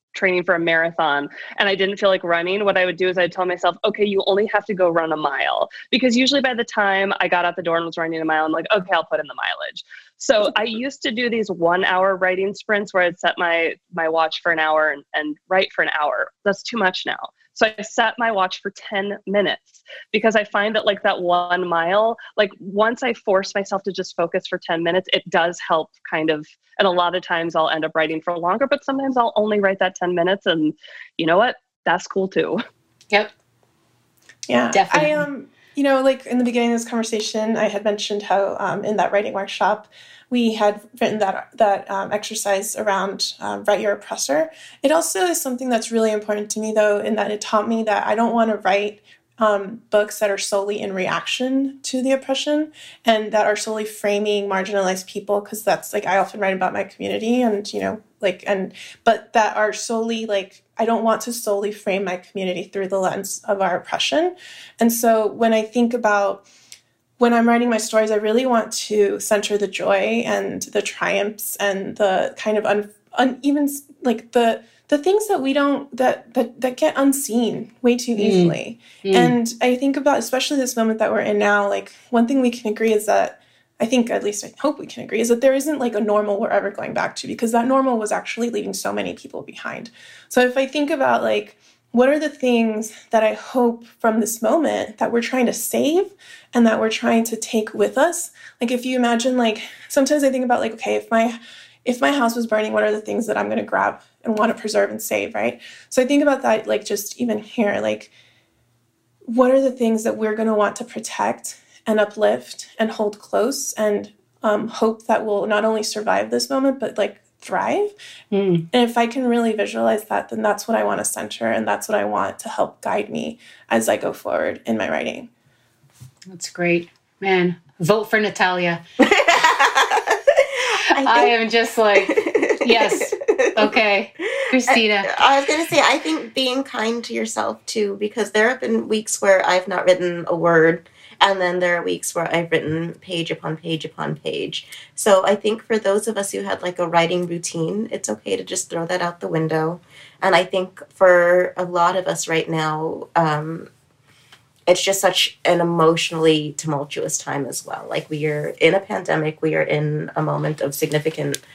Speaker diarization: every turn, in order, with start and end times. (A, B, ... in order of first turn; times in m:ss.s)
0:00.1-0:32.6 A
0:34.5-1:06.5 B
0:34.7-0:35.3 C
1:07.2-1:48.1 B
1:18.2-1:19.4 C
1:49.3-1:57.9 B
1:58.3-1:58.7 C
1:58.7-2:05.3 B
2:06.3-2:08.8 C
2:09.0-2:10.2 D
2:10.9-2:11.3 D
2:11.0-2:15.1 C
2:12.0-2:13.7 D
2:14.3-2:33.7 D
2:34.7-2:41.4 D